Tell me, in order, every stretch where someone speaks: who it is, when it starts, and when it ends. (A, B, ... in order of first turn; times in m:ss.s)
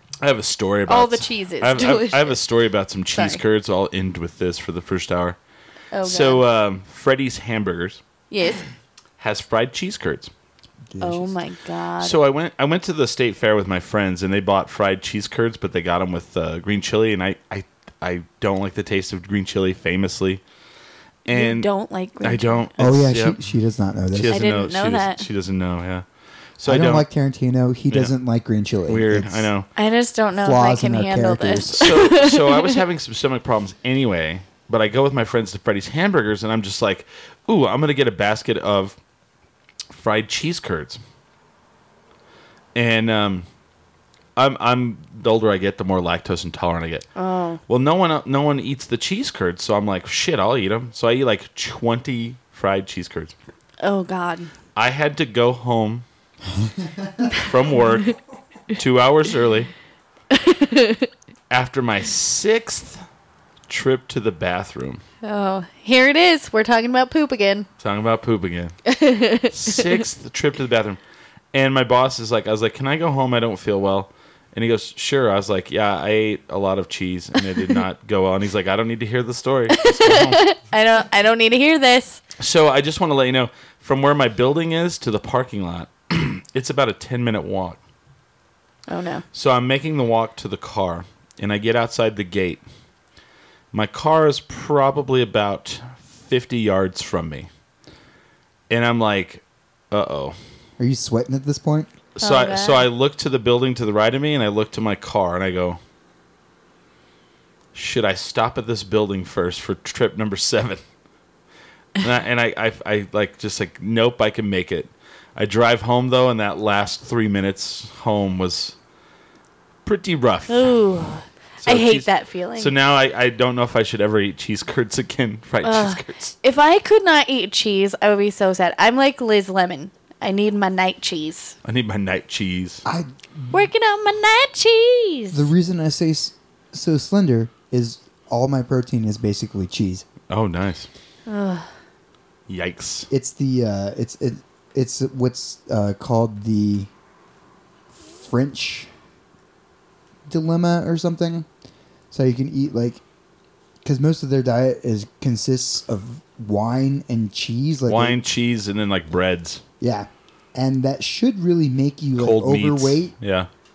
0:00.2-0:05.4 A
0:00.9-0:02.4 B
0:03.2-0:03.4 B
0:05.9-0:06.4 B
0:06.0-0:08.0 A
0:08.3-0:08.6 B
0:09.2-0:10.3 A
0:10.9-0:11.3 C
0:11.0-0:12.2 B
0:12.0-0:20.4 A
0:21.2-0:21.7 A
0:21.3-0:22.6 B
0:22.2-0:23.4 A
0:22.8-0:24.4 C
0:24.1-0:26.0 A
0:24.3-0:25.3 B
0:26.6-0:27.1 A
0:26.6-0:29.5 C
0:28.9-0:29.7 A
0:29.8-0:32.8 B
0:30.4-0:31.9 C
0:31.6-0:39.0 A
0:39.9-0:41.0 A
0:42.8-0:43.5 A
0:44.4-0:47.1 A
0:47.2-0:47.6 B
0:47.7-0:53.3 A
0:53.8-0:54.5 B
0:54.8-0:56.0 A
0:57.3-0:58.2 A
0:58.7-0:59.7 A
1:00.3-1:01.1 B
1:01.5-1:03.0 A
1:03.7-1:05.0 A
1:05.2-1:07.7 B
1:07.8-1:08.7 A
1:08.9-1:10.0 B
1:09.5-1:11.0 A
1:11.5-1:20.4 A
1:19.8-1:22.2 B
1:22.4-1:27.8 A
1:28.9-1:29.2 B
1:29.3-1:32.6 A
1:33.7-1:37.5 A
1:38.7-1:40.4 A
1:40.8-1:41.9 C
1:42.2-1:45.8 A
1:42.2-1:42.9 B
1:47.7-1:50.8 A
1:52.0-1:58.8 A
1:59.9-2:00.7 A
2:00.5-2:02.8 B
2:01.6-2:06.4 A
2:05.6-2:11.6 B
2:11.6-2:12.8 A
2:12.8-2:13.6 C
2:13.5-2:15.5 B
2:15.3-2:20.0 C
2:20.3-2:20.9 A
2:21.3-2:21.7 B
2:22.5-2:23.1 A
2:23.1-2:26.9 C
2:28.0-2:28.9 C
2:30.3-2:31.5 C
2:32.1-2:33.0 C
2:33.8-2:38.2 C
2:37.9-2:39.6 A
2:39.8-2:43.1 C
2:42.2-2:43.5 A